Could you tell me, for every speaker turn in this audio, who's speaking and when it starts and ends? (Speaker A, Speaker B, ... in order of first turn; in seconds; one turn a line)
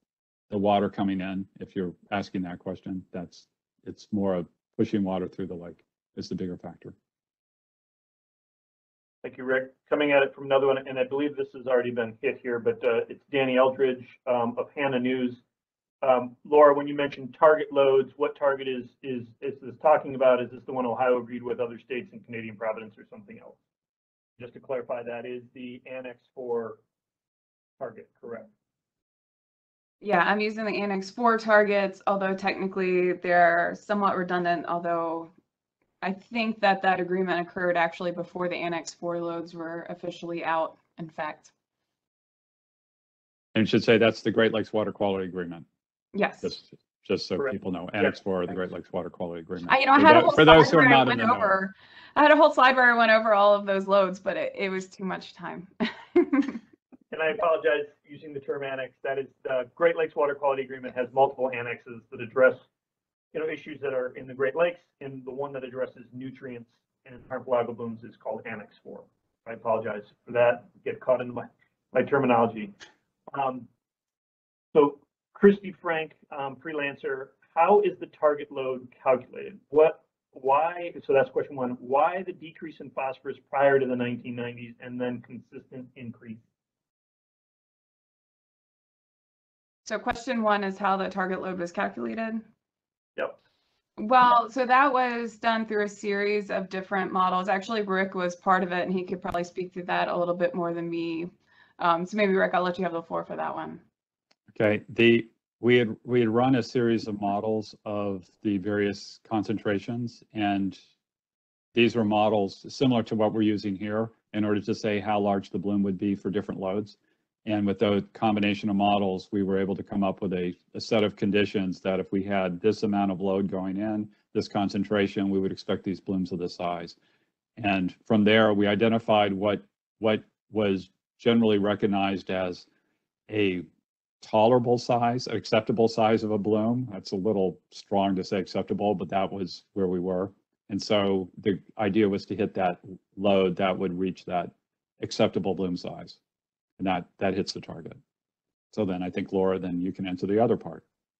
Speaker A: 0.5-7.0
Speaker B: 9.2-15.4
Speaker B: 16.0-23.6
Speaker B: 24.4-26.8
Speaker B: 27.8-28.5
Speaker C: 30.0-35.3
Speaker C: 36.0-41.5
Speaker A: 43.5-45.6
Speaker C: 46.1-46.5
Speaker A: 46.4-51.6
Speaker B: 47.4-48.2
Speaker C: 49.7-56.6
Speaker B: 57.1-62.6
Speaker B: 63.3-72.7
Speaker B: 73.3-73.7
Speaker B: 74.7-86.4
Speaker C: 89.9-92.4
Speaker C: 94.0-103.8
Speaker A: 104.5-110.8
Speaker A: 111.7-127.0
Speaker A: 127.6-132.7
Speaker A: 133.3-133.7
Speaker A: 134.2-146.2
Speaker A: 146.8-148.0
Speaker A: 148.7-150.8